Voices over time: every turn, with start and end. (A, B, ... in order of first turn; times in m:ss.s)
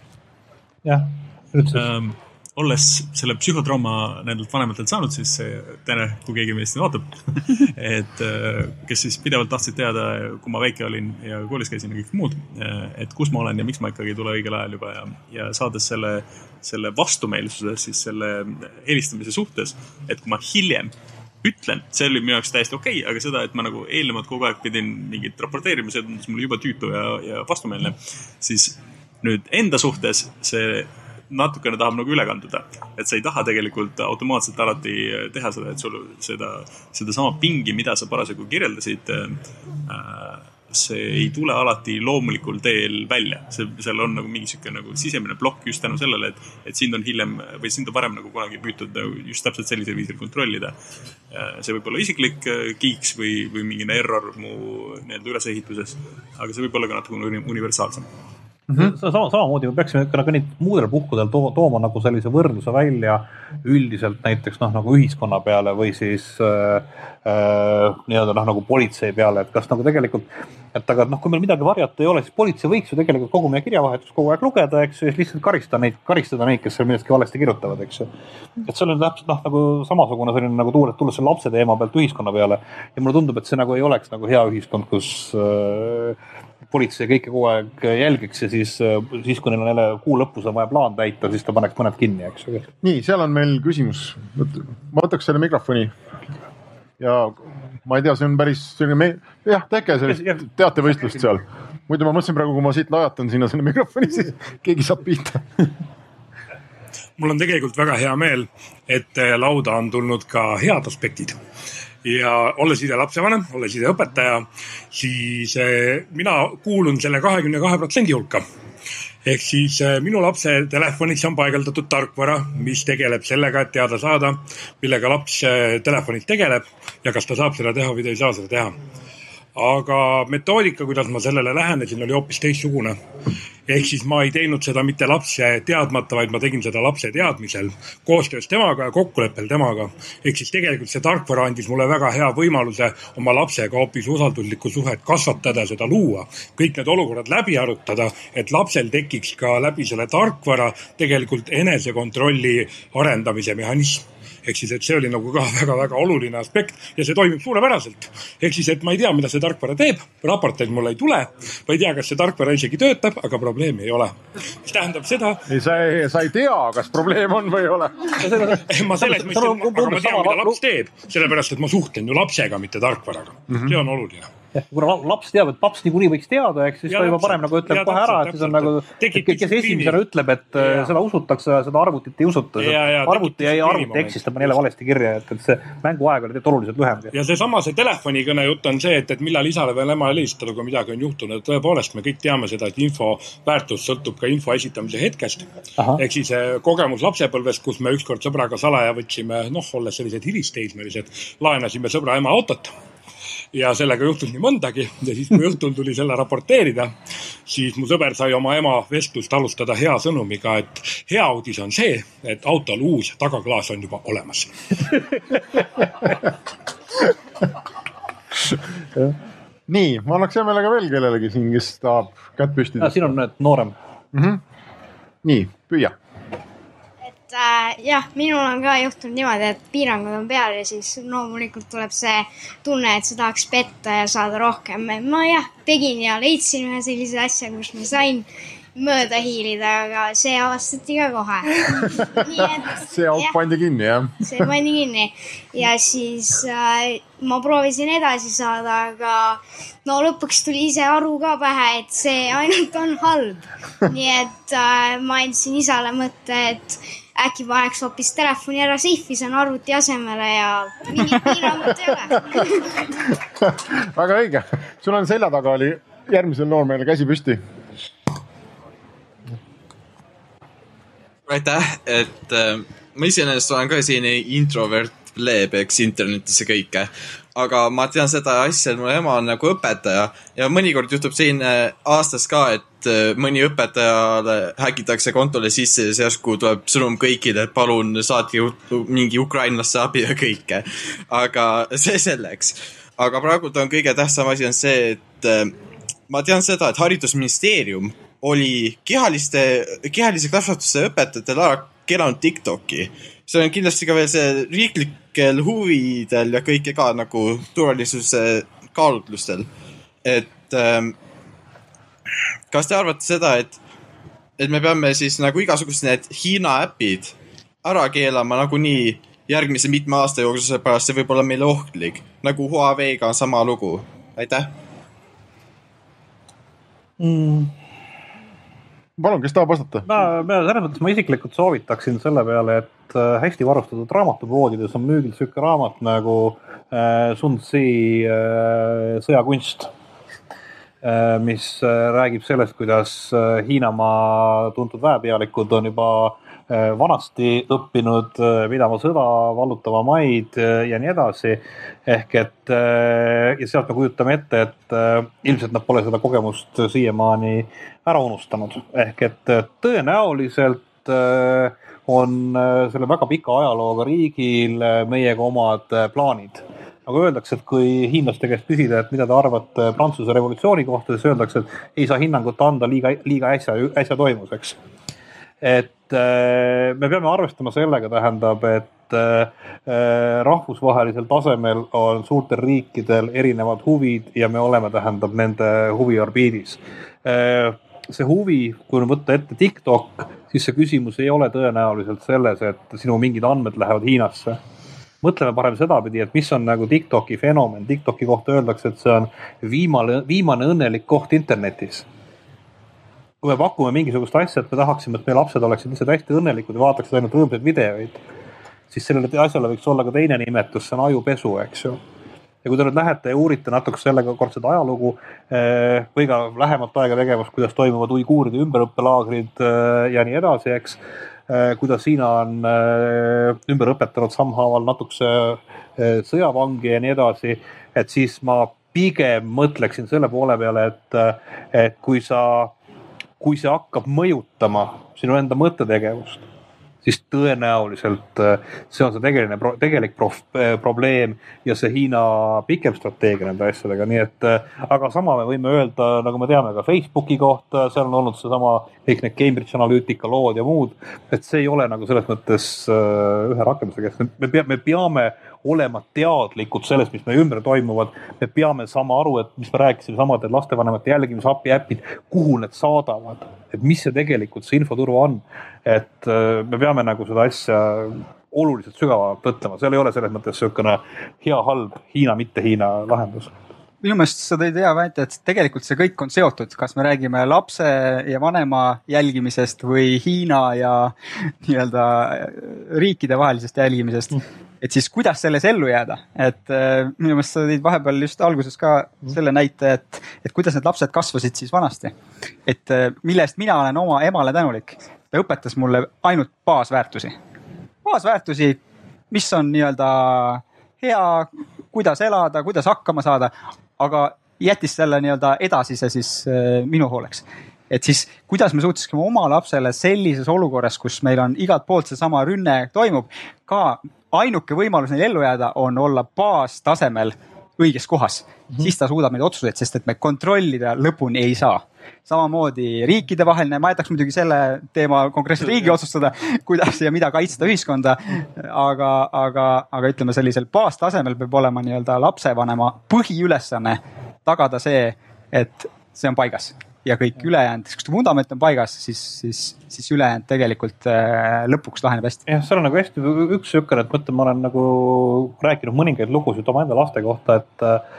0:00.8-0:01.9 A
0:01.7-0:50.7 B
0:51.3-0:58.1 B
0:58.7-1:18.1 A
1:18.6-1:26.2 A
1:26.7-1:32.7 A
1:32.8-1:35.9 C
1:37.0-1:45.7 C
1:40.0-1:41.2 A
1:47.2-1:51.4 D
1:52.0-1:58.4 D
1:59.2-2:08.7 D
2:09.5-2:13.0 D
2:13.7-2:45.4 D
2:45.5-2:48.4 C
2:48.2-2:50.6 A
2:48.7-2:54.3 D
2:53.5-2:53.8 C
2:54.5-3:07.1 A
2:56.9-3:00.0 D
3:00.6-3:00.9 D
3:02.6-3:04.6 D
3:07.1-3:22.7 D
3:15.8-3:16.0 A
3:23.5-3:26.9 D
3:27.5-3:34.6 D
3:39.7-3:43.1 C
3:42.8-3:43.7 A
3:44.1-3:44.4 C
3:45.2-3:46.0 C
3:47.3-4:03.4 E
4:01.6-4:04.5 C
4:04.2-4:22.6 E
4:21.1-4:27.4 C
4:31.3-4:55.5 F
4:56.1-5:09.5 F
5:10.0-5:10.9 F
5:12.5-5:13.6 F
5:14.4-5:24.5 F
5:27.0-5:27.5 A
5:29.0-5:29.9 C
5:29.8-5:39.7 A
5:40.8-6:14.6 A
6:15.4-6:34.4 A
6:35.0-6:41.8 A
6:43.2-6:48.0 A
6:48.7-6:51.8 A
6:52.4-7:12.5 A
7:13.2-7:16.2 A
7:16.8-7:53.4 A
7:53.8-8:11.9 G
8:12.5-8:17.2 G
8:17.8-8:18.6 G
8:19.1-9:02.2 G
8:45.4-8:45.8 A
9:02.3-9:07.8 A